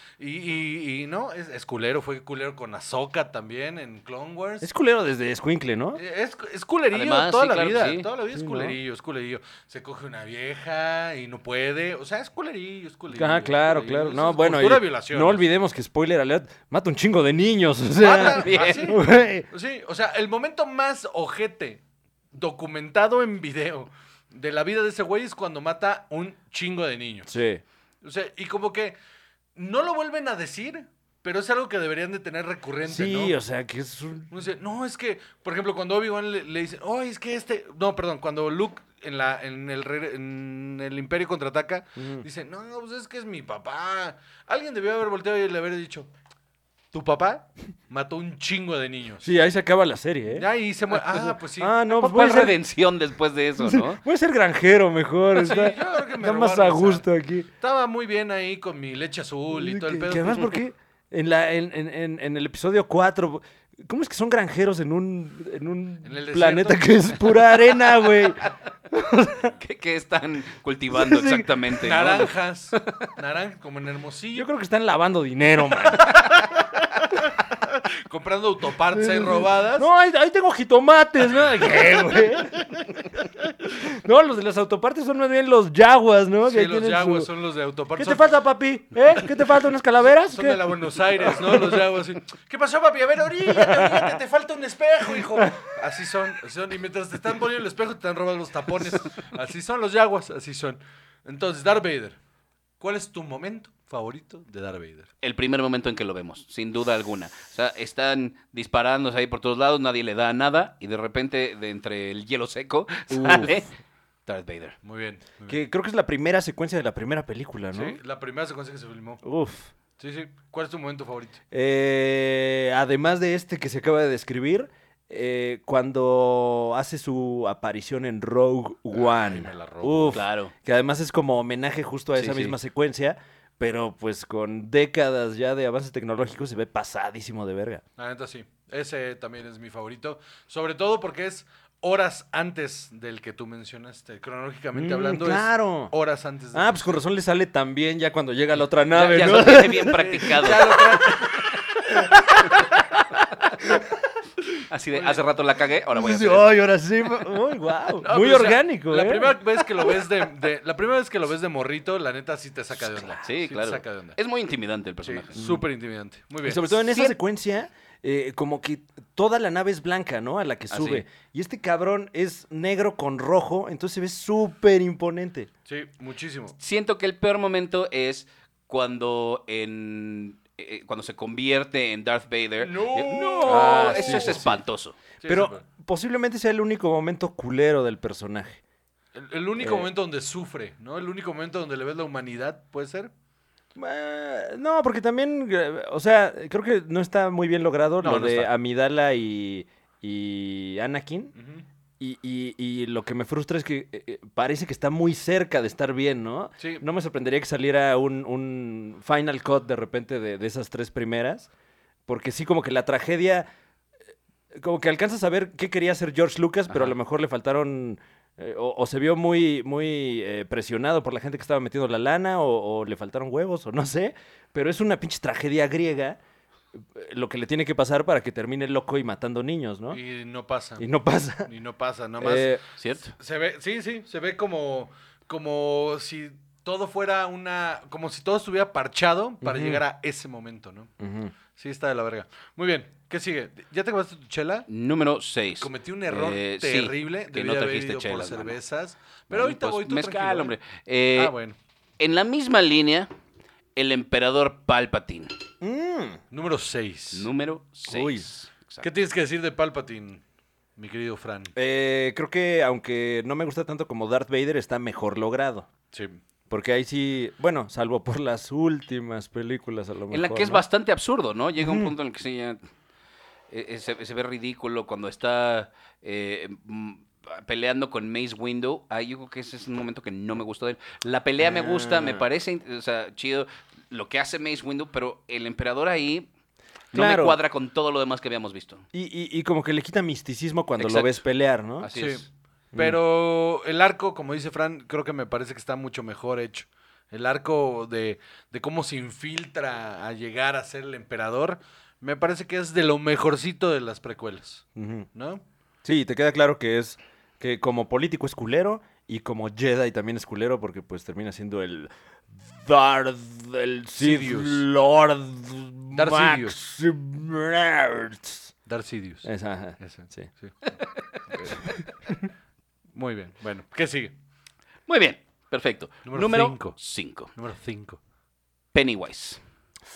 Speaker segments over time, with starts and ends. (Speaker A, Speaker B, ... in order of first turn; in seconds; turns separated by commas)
Speaker A: 0.2-4.7, Speaker B: 4.6-6.0, Speaker A: 5.9-15.4, Speaker C: 6.9-8.1, Speaker B: 8.3-8.8, Speaker B: 13.1-19.5, Speaker A: 18.0-21.8, Speaker C: 18.2-18.9, Speaker A: 22.3-27.3, Speaker B: 27.3-27.6, Speaker A: 28.0-28.9, Speaker A: 29.5-33.3, Speaker B: 32.9-34.3, Speaker A: 34.3-46.1, Speaker B: 42.0-42.2, Speaker A: 46.9-49.3, Speaker B: 49.2-52.6, Speaker A: 50.3-51.8, Speaker C: 51.9-54.0, Speaker B: 53.6-57.5, Speaker A: 55.3-57.1, Speaker A: 57.6-60.5, Speaker B: 59.5-69.5, Speaker A: 66.0-67.3, Speaker C: 69.6-73.1, Speaker B: 70.9-71.5, Speaker A: 71.7-74.5, Speaker B: 74.3-76.6, Speaker A: 76.0-79.9, Speaker B: 78.9-87.3, Speaker A: 86.5-88.3, Speaker B: 88.0-91.8, Speaker A: 90.0-102.2, Speaker B: 93.4-94.2, Speaker A: 102.8-105.1, Speaker C: 105.2-113.7, Speaker B: 113.1-113.7, Speaker C: 114.2-114.8, Speaker A: 114.8-115.6, Speaker B: 115.5-118.0, Speaker A: 117.7-119.2, Speaker B: 119.2-119.7, Speaker A: 120.0-121.4, Speaker B: 121.5-137.8, Speaker A: 128.9-130.2, Speaker C: 130.1-130.5, Speaker C: 132.2-132.6, Speaker A: 138.0-147.0, Speaker B: 144.7-145.9, Speaker B: 146.5-153.0, Speaker C: 148.9-150.9, Speaker A: 150.0-152.1, Speaker B: 153.6-154.0, Speaker C: 154.7-156.5, Speaker A: 154.9-155.2, Speaker B: 155.9-160.1, Speaker A: 158.0-164.2, Speaker C: 163.2-165.5, Speaker A: 165.0-166.8, Speaker B: 165.4-165.6, Speaker B: 166.4-175.5, Speaker C: 170.7-171.0, Speaker A: 175.7-176.6, Speaker C: 176.6-185.0, Speaker A: 182.6-184.5, Speaker B: 183.4-184.6, Speaker A: 185.2-185.6, Speaker B: 185.2-188.6, Speaker A: 189.1-193.1, Speaker B: 189.6-189.9, Speaker B: 193.8-201.3, Speaker A: 198.0-198.5, Speaker A: 201.3-201.7, Speaker B: 202.0-211.5, Speaker A: 206.6-206.8, Speaker B: 212.1-213.5, Speaker B: 214.5-226.2, Speaker B: 226.8-230.0, Speaker A: 229.9-230.8, Speaker B: 230.8-231.5, Speaker A: 231.4-232.6, Speaker B: 232.2-232.6, Speaker C: 232.8-233.1, Speaker A: 233.1-240.9, Speaker B: 239.4-239.8, Speaker B: 241.0-241.3, Speaker A: 241.5-244.7, Speaker C: 244.7-248.6, Speaker A: 245.6-250.5, Speaker C: 249.3-251.3, Speaker A: 251.1-251.6, Speaker C: 252.0-253.1, Speaker C: 253.8-255.3, Speaker B: 255.6-256.2, Speaker A: 256.3-257.3, Speaker C: 257.1-258.9, Speaker B: 257.9-258.3, Speaker A: 258.8-260.2, Speaker A: 260.8-261.5, Speaker B: 261.6-265.7, Speaker A: 265.9-266.2, Speaker B: 266.5-270.6, Speaker C: 270.1-272.6, Speaker B: 271.6-271.9, Speaker C: 273.5-286.3, Speaker B: 281.4-282.2, Speaker C: 286.9-288.8, Speaker B: 286.9-287.4, Speaker B: 288.9-291.9, Speaker C: 290.8-291.2, Speaker C: 291.8-292.2, Speaker A: 291.9-292.2, Speaker B: 292.7-293.0, Speaker A: 292.8-305.4, Speaker B: 304.8-305.1, Speaker B: 305.8-318.5, Speaker A: 313.9-314.6, Speaker A: 315.9-316.6, Speaker A: 318.6-320.6, Speaker B: 319.2-320.3, Speaker C: 320.8-321.2, Speaker A: 321.3-321.6, Speaker B: 321.5-322.3, Speaker A: 322.9-324.1, Speaker C: 324.9-327.3, Speaker A: 326.0-326.8, Speaker A: 327.3-328.0, Speaker C: 328.7-329.4